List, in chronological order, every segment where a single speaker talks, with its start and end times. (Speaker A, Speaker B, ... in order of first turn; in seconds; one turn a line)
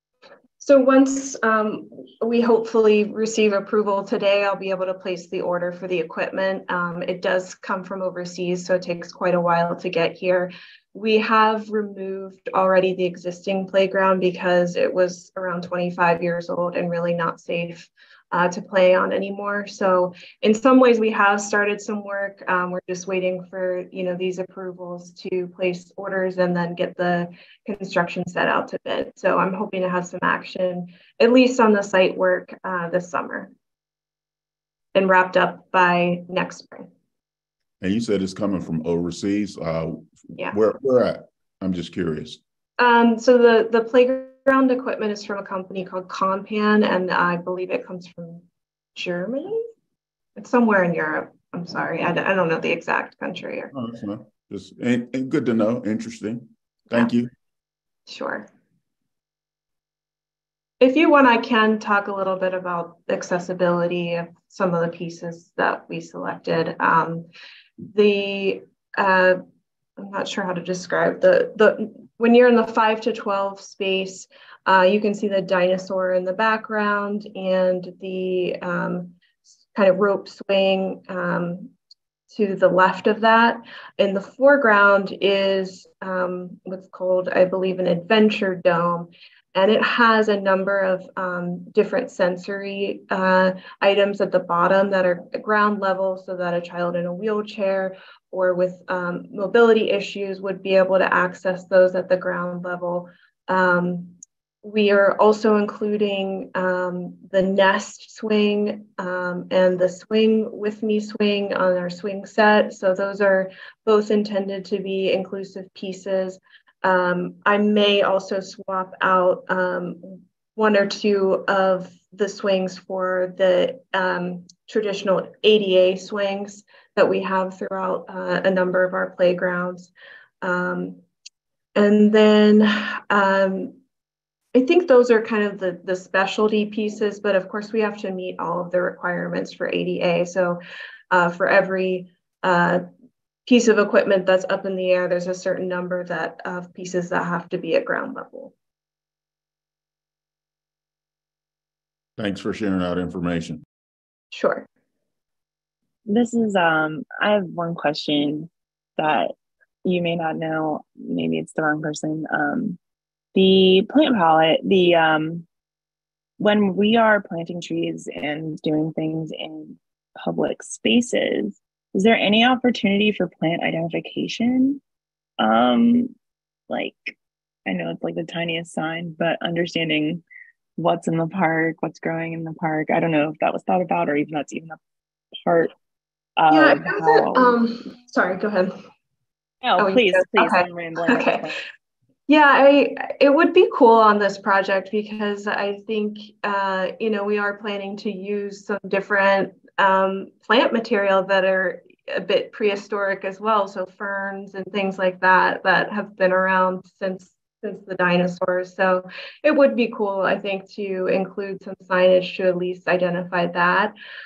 Speaker A: 0.6-33.5
Speaker A: 34.9-36.9
Speaker B: 37.8-42.4
Speaker A: 42.8-48.4
Speaker A: 49.0-49.6
Speaker A: 50.4-53.7
Speaker B: 53.7-57.3
Speaker A: 58.1-58.5
Speaker A: 60.8-67.3
Speaker A: 67.9-69.4
Speaker A: 70.0-79.2
Speaker A: 79.7-81.7
Speaker A: 82.3-129.9
Speaker A: 130.4-131.0
Speaker A: 131.7-133.8
Speaker A: 134.5-142.8
Speaker A: 143.4-148.5
Speaker B: 152.2-153.6
Speaker A: 154.3-154.7
Speaker C: 156.1-159.3
Speaker C: 159.8-162.8
Speaker C: 163.3-165.4
Speaker C: 166.4-174.8
Speaker C: 175.4-176.1
Speaker C: 176.7-180.2
Speaker C: 180.8-184.8
Speaker C: 185.4-185.7
Speaker C: 186.4-187.6
Speaker A: 186.5-188.8
Speaker C: 189.6-191.6
Speaker A: 189.8-191.5
Speaker A: 192.3-213.9